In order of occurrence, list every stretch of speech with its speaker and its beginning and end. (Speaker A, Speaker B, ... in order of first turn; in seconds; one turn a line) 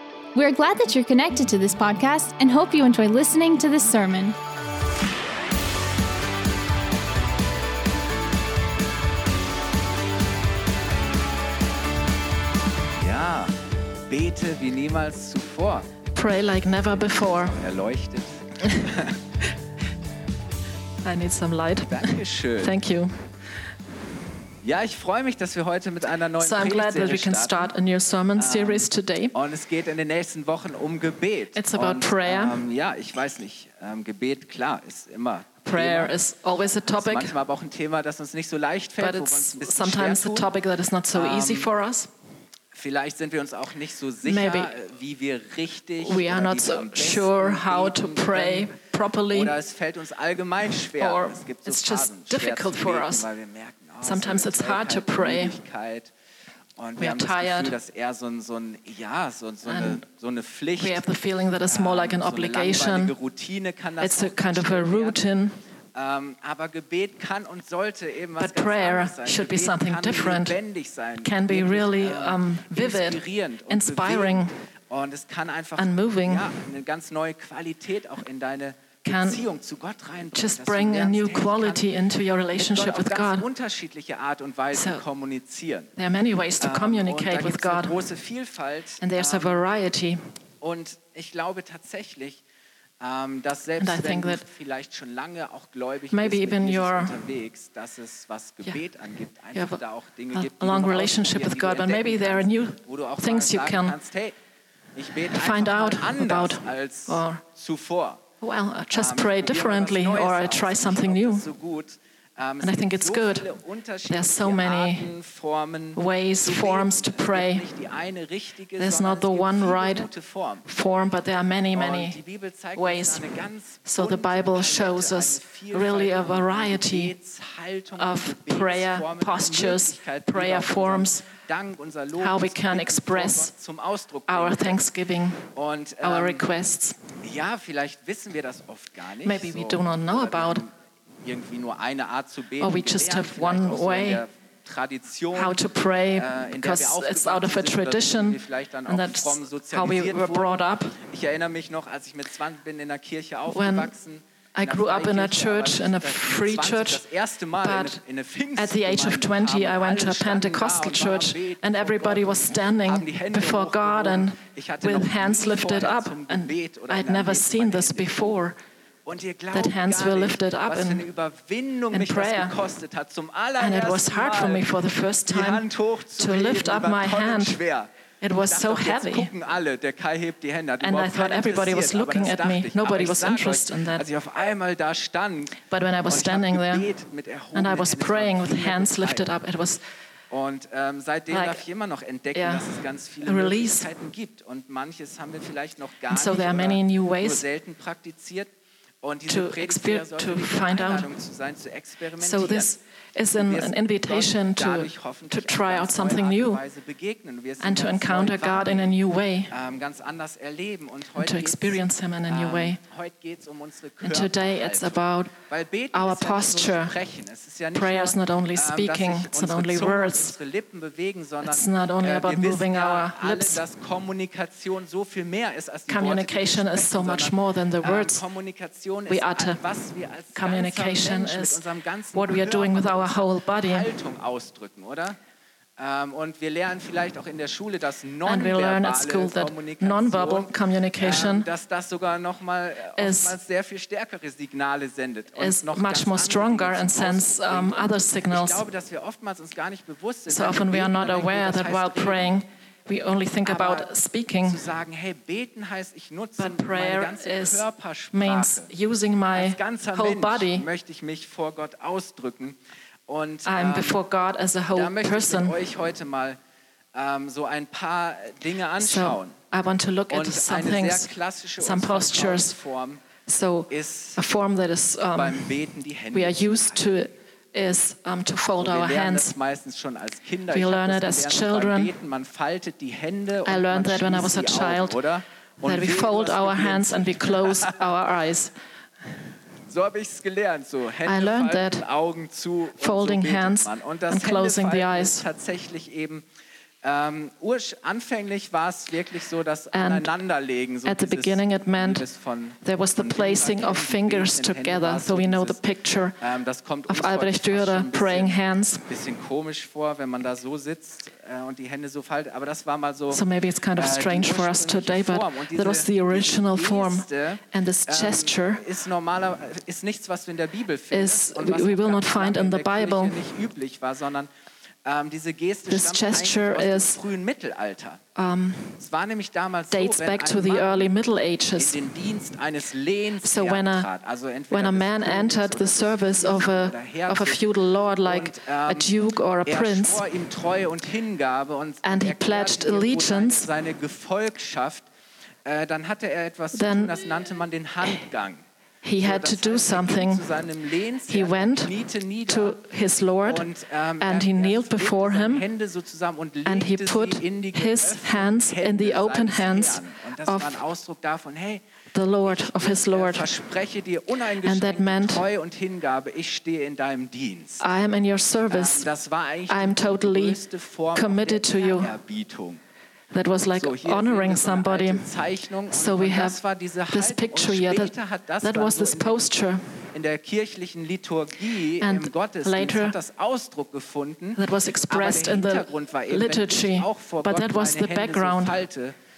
Speaker A: 0.3-4.4
Speaker B: 13.0-13.6
Speaker B: 14.1-15.9
Speaker C: 16.1-17.6
Speaker B: 16.9-19.2
Speaker C: 18.6-18.9
Speaker C: 21.0-23.3
Speaker B: 21.9-22.8
Speaker B: 24.6-27.7
Speaker C: 26.4-29.4
Speaker B: 28.4-36.1
Speaker C: 31.6-32.6
Speaker C: 35.7-37.4
Speaker B: 36.9-40.5
Speaker C: 39.0-42.1
Speaker B: 41.1-41.7
Speaker B: 42.7-48.8
Speaker C: 44.2-44.7
Speaker C: 46.0-49.6
Speaker B: 49.3-56.1
Speaker C: 50.9-53.3
Speaker C: 54.0-55.6
Speaker B: 56.8-61.0
Speaker C: 57.0-57.8
Speaker C: 59.6-60.0
Speaker C: 60.8-63.1
Speaker B: 61.7-65.2
Speaker C: 64.0-65.6
Speaker B: 66.0-81.9
Speaker C: 68.4-70.6
Speaker C: 71.2-74.5
Speaker C: 75.8-76.5
Speaker C: 79.0-79.5
Speaker C: 80.3-83.5
Speaker B: 82.5-85.9
Speaker C: 84.7-85.0
Speaker C: 86.0-88.0
Speaker B: 86.6-89.6
Speaker C: 89.0-90.2
Speaker B: 90.6-92.4
Speaker B: 93.0-104.4
Speaker C: 93.8-94.4
Speaker C: 96.1-97.2
Speaker C: 99.5-99.8
Speaker C: 100.3-104.0
Speaker B: 105.0-108.2
Speaker C: 105.3-107.4
Speaker C: 108.4-111.5
Speaker B: 108.9-120.7
Speaker C: 112.6-113.5
Speaker C: 114.1-115.1
Speaker C: 116.0-117.7
Speaker C: 118.8-120.1
Speaker C: 120.7-122.2
Speaker B: 121.7-134.9
Speaker C: 122.8-127.1
Speaker C: 128.0-131.2
Speaker C: 132.2-133.5
Speaker C: 134.3-135.5
Speaker B: 135.5-136.5
Speaker C: 136.0-137.0
Speaker B: 137.2-168.4
Speaker C: 139.2-140.6
Speaker C: 142.6-144.2
Speaker C: 145.3-151.0
Speaker C: 153.5-153.9
Speaker C: 154.6-157.1
Speaker C: 157.6-158.0
Speaker C: 158.6-168.6
Speaker B: 169.1-174.8
Speaker C: 169.5-171.1
Speaker C: 171.9-172.6
Speaker C: 173.6-177.6
Speaker B: 175.3-177.9
Speaker C: 178.2-179.3
Speaker B: 178.4-189.3
Speaker C: 180.8-184.1
Speaker C: 185.6-186.9
Speaker C: 187.5-189.8
Speaker B: 190.3-198.5
Speaker C: 191.3-191.6
Speaker C: 192.3-193.9
Speaker C: 196.1-197.4
Speaker B: 199.0-202.7
Speaker C: 199.3-201.1
Speaker C: 202.2-206.6
Speaker B: 203.3-209.0
Speaker C: 207.6-209.5
Speaker B: 209.5-235.2
Speaker C: 211.2-212.8
Speaker C: 214.0-215.4
Speaker C: 215.9-217.0
Speaker C: 217.7-220.4
Speaker C: 221.4-223.6
Speaker C: 225.9-228.3
Speaker C: 229.1-229.6
Speaker C: 230.3-233.9
Speaker B: 235.8-252.3
Speaker C: 238.2-241.5
Speaker C: 243.0-243.4
Speaker C: 245.4-248.6
Speaker C: 250.3-254.6
Speaker B: 253.4-253.9
Speaker B: 254.4-258.7
Speaker C: 256.4-260.7
Speaker B: 259.3-264.0
Speaker C: 263.4-265.6
Speaker B: 264.7-266.4
Speaker B: 266.9-269.4
Speaker C: 268.8-272.6
Speaker B: 270.1-273.1
Speaker C: 273.3-275.6
Speaker B: 273.7-274.2
Speaker B: 275.1-276.9
Speaker C: 276.1-279.3
Speaker B: 278.6-287.9
Speaker C: 280.5-281.9
Speaker C: 283.5-285.0
Speaker C: 285.6-288.5
Speaker B: 289.6-296.2
Speaker C: 291.1-291.9
Speaker C: 292.8-295.2
Speaker B: 296.8-305.6
Speaker C: 299.7-300.1
Speaker C: 300.9-302.1
Speaker C: 302.6-306.2
Speaker B: 306.2-313.2
Speaker C: 306.9-308.9
Speaker C: 313.1-318.6
Speaker B: 313.8-324.3
Speaker C: 320.9-323.2
Speaker B: 324.8-328.0
Speaker C: 325.7-327.0
Speaker C: 328.2-328.8
Speaker B: 328.8-330.9
Speaker C: 329.7-331.8
Speaker B: 331.6-337.5
Speaker C: 333.2-333.9
Speaker C: 334.5-340.1
Speaker B: 338.0-338.9
Speaker B: 339.4-344.9
Speaker C: 341.8-343.5
Speaker B: 345.4-348.4
Speaker C: 346.5-347.2
Speaker C: 348.8-350.2
Speaker B: 349.0-352.6
Speaker C: 351.1-351.8
Speaker C: 352.3-353.5
Speaker B: 353.2-361.6
Speaker C: 354.0-355.5
Speaker C: 356.4-360.6
Speaker C: 361.9-363.3
Speaker B: 362.2-367.6
Speaker C: 364.4-365.3
Speaker C: 367.6-368.9
Speaker B: 368.5-372.6
Speaker C: 369.5-370.4
Speaker C: 370.9-372.0
Speaker C: 373.1-375.1
Speaker B: 373.6-379.3
Speaker C: 375.7-379.7
Speaker B: 379.9-389.0
Speaker C: 381.8-383.0
Speaker C: 384.4-388.6